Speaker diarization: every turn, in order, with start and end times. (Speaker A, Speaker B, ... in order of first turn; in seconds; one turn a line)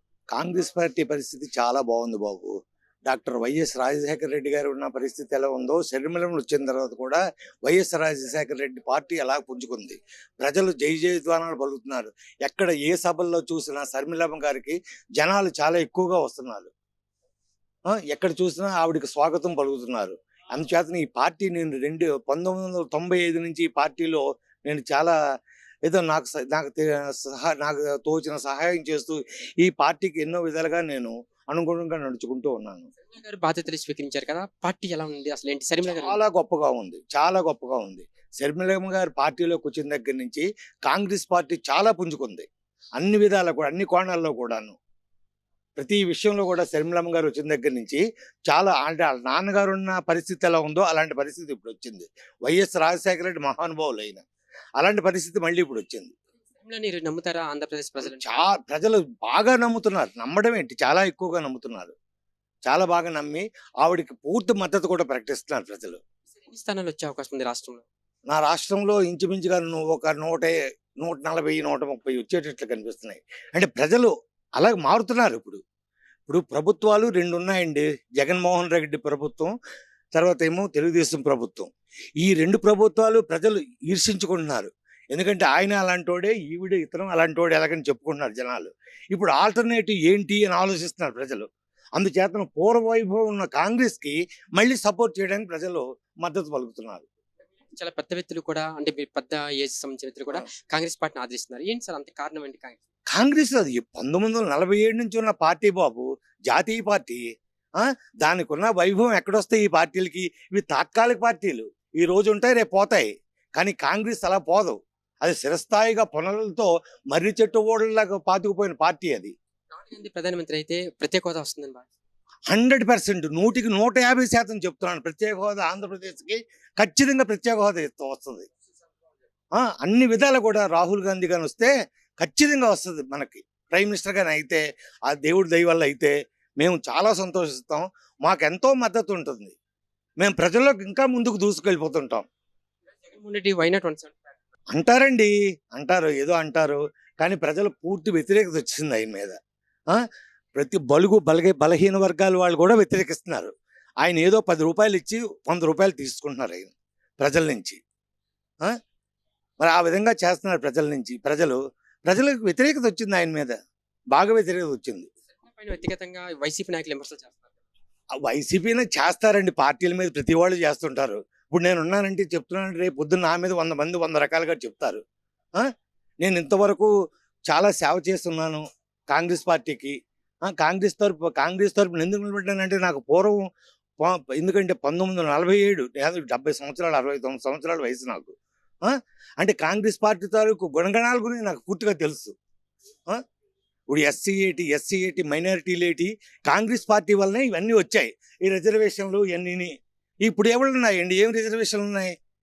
Speaker A: 0.3-2.5
Speaker A: 3.1-16.7
Speaker A: 17.9-25.1
Speaker A: 25.9-32.9
Speaker B: 33.0-36.2
Speaker A: 35.9-42.5
Speaker A: 43.0-44.8
Speaker A: 45.8-54.2
Speaker A: 54.8-56.1
Speaker B: 56.6-58.3
Speaker A: 58.0-61.9
Speaker A: 62.7-66.0
Speaker B: 66.4-67.8
Speaker A: 68.3-75.6
Speaker A: 76.3-79.5
Speaker A: 80.1-97.0
Speaker B: 97.7-102.8
Speaker A: 103.1-107.2
Speaker A: 107.8-119.3
Speaker B: 119.7-121.9
Speaker A: 122.5-128.5
Speaker A: 129.6-139.5
Speaker A: 140.2-142.2
Speaker B: 143.0-144.2
Speaker A: 144.7-149.4
Speaker A: 150.6-153.5
Speaker A: 154.0-157.8
Speaker A: 159.6-163.6
Speaker A: 164.1-165.1
Speaker B: 165.4-167.5
Speaker A: 168.2-175.0
Speaker A: 176.2-176.9
Speaker A: 177.5-179.9
Speaker A: 180.5-183.4
Speaker A: 184.0-192.3
Speaker A: 193.9-199.7
Speaker A: 200.3-202.1